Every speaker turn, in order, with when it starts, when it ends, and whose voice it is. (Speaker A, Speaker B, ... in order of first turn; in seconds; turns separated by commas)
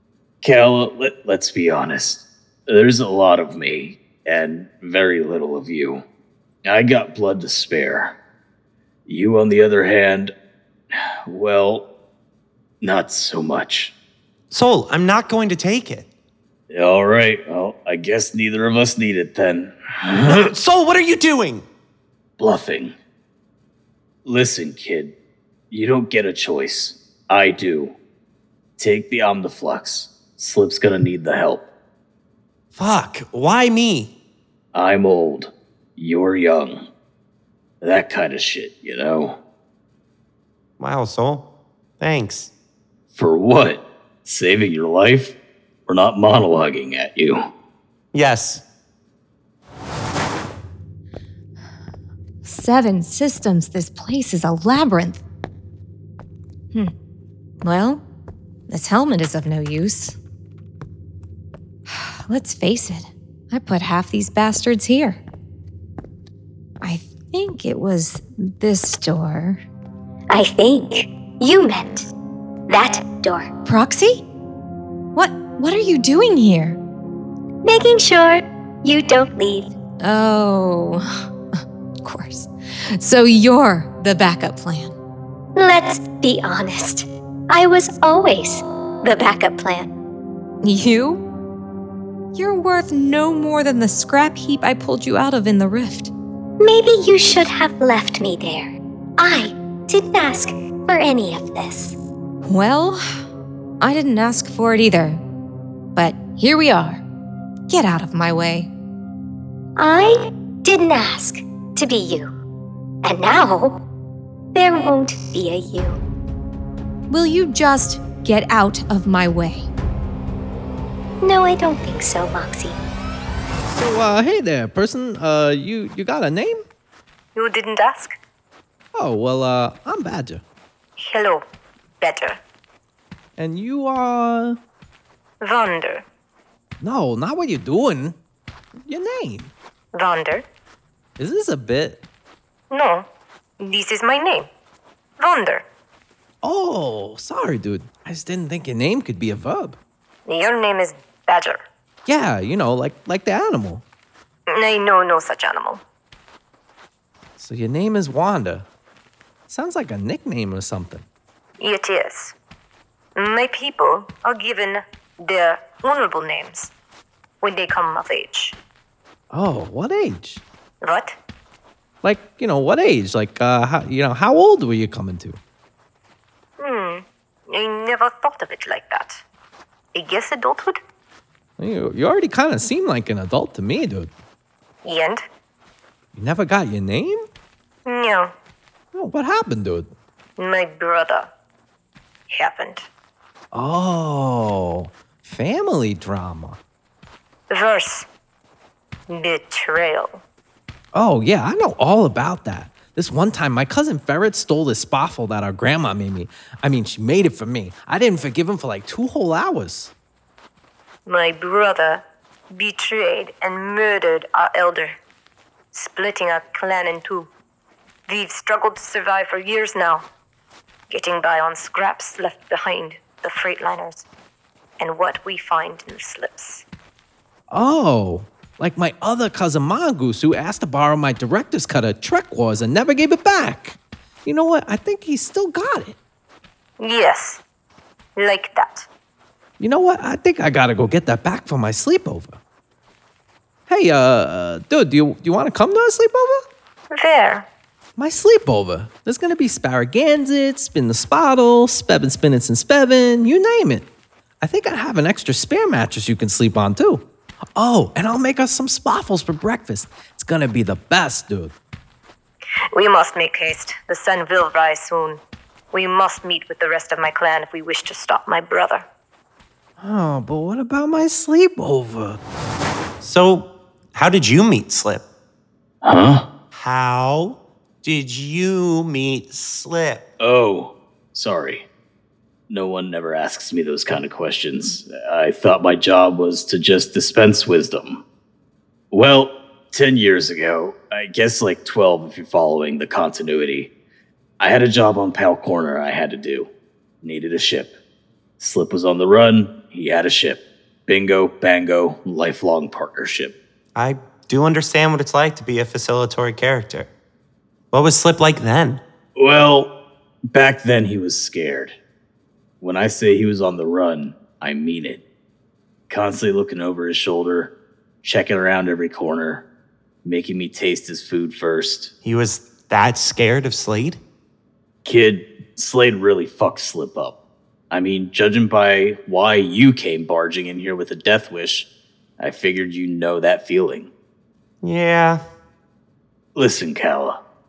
Speaker A: 0.4-6.0, Speaker A: 6.6-8.2, Speaker A: 9.1-10.3, Speaker A: 11.3-11.8, Speaker A: 12.8-13.9, Speaker B: 14.5-16.1, Speaker A: 16.7-20.5, Speaker B: 20.2-21.6, Speaker A: 22.4-22.9, Speaker A: 24.2-25.1, Speaker A: 25.7-27.9, Speaker A: 28.8-31.7, Speaker B: 32.7-34.1, Speaker A: 34.7-36.9, Speaker A: 37.8-39.4, Speaker B: 40.8-41.5, Speaker B: 42.0-42.5, Speaker A: 43.1-45.4, Speaker A: 45.9-47.4, Speaker B: 48.1-48.6, Speaker C: 52.4-55.2, Speaker C: 57.6-58.0, Speaker C: 58.7-60.1, Speaker C: 61.9-65.2, Speaker C: 66.8-69.6, Speaker D: 70.3-72.1, Speaker D: 72.7-73.5, Speaker C: 73.6-74.2, Speaker C: 75.1-76.8, Speaker D: 77.6-79.7, Speaker C: 80.0-81.0, Speaker C: 82.0-84.9, Speaker D: 85.5-89.9, Speaker C: 90.6-91.2, Speaker C: 92.3-96.1, Speaker D: 96.6-102.0, Speaker C: 102.4-103.0, Speaker C: 103.8-105.2, Speaker C: 105.9-107.0, Speaker C: 107.7-108.7, Speaker D: 109.8-112.3, Speaker D: 113.0-113.8, Speaker D: 114.5-116.0, Speaker C: 117.1-119.7, Speaker D: 121.2-122.8, Speaker E: 123.7-126.6, Speaker F: 127.3-128.1, Speaker E: 128.9-130.4, Speaker F: 131.0-131.4, Speaker F: 132.0-132.4, Speaker E: 133.4-134.6, Speaker F: 135.4-136.0, Speaker E: 136.8-138.2, Speaker E: 138.8-139.5, Speaker F: 139.9-140.4, Speaker E: 141.2-142.0, Speaker F: 142.7-143.1, Speaker F: 143.6-144.5, Speaker F: 145.2-145.6, Speaker E: 146.4-149.8, Speaker F: 150.2-151.6, Speaker E: 152.1-153.8, Speaker F: 154.5-155.8, Speaker E: 157.4-158.7, Speaker E: 159.5-161.0, Speaker F: 161.6-162.3, Speaker F: 163.2-166.7, Speaker F: 167.4-168.6, Speaker E: 169.3-170.4, Speaker F: 170.8-171.2, Speaker E: 172.0-175.4, Speaker F: 176.6-179.2, Speaker F: 179.9-180.8, Speaker E: 181.6-184.1, Speaker F: 184.8-185.2, Speaker E: 186.1-187.2, Speaker F: 187.8-188.3, Speaker E: 188.9-189.9, Speaker F: 190.4-191.3, Speaker F: 192.3-192.8, Speaker E: 193.5-196.6, Speaker F: 197.5-198.1, Speaker F: 199.1-200.2, Speaker E: 200.9-209.9, Speaker F: 211.1-215.0, Speaker F: 215.7-217.3, Speaker F: 218.1-220.1, Speaker F: 220.9-224.0, Speaker F: 224.8-226.6, Speaker E: 227.5-235.9, Speaker F: 236.8-237.4, Speaker F: 238.2-238.9, Speaker E: 239.6-242.4, Speaker E: 243.7-246.4, Speaker F: 246.9-247.5, Speaker E: 248.0-253.8, Speaker E: 254.4-257.0, Speaker E: 257.6-261.5, Speaker F: 262.7-265.2, Speaker F: 265.7-268.8, Speaker E: 269.8-272.2, Speaker B: 273.0-275.0, Speaker A: 275.8-276.3, Speaker B: 276.5-280.0, Speaker A: 280.2-281.6, Speaker A: 282.5-288.0, Speaker A: 288.9-293.7, Speaker A: 294.4-296.5, Speaker A: 297.0-297.7, Speaker A: 298.4-303.4, Speaker B: 303.7-306.9, Speaker B: 307.7-308.8, Speaker A: 309.1-309.7, Speaker A: 310.3-311.8, Speaker A: 312.6-315.0, Speaker A: 315.9-319.4, Speaker A: 320.0-321.9, Speaker B: 322.0-324.0, Speaker A: 324.8-327.1, Speaker A: 327.7-331.7, Speaker A: 332.2-333.9, Speaker B: 334.6-335.2, Speaker A: 336.3-337.2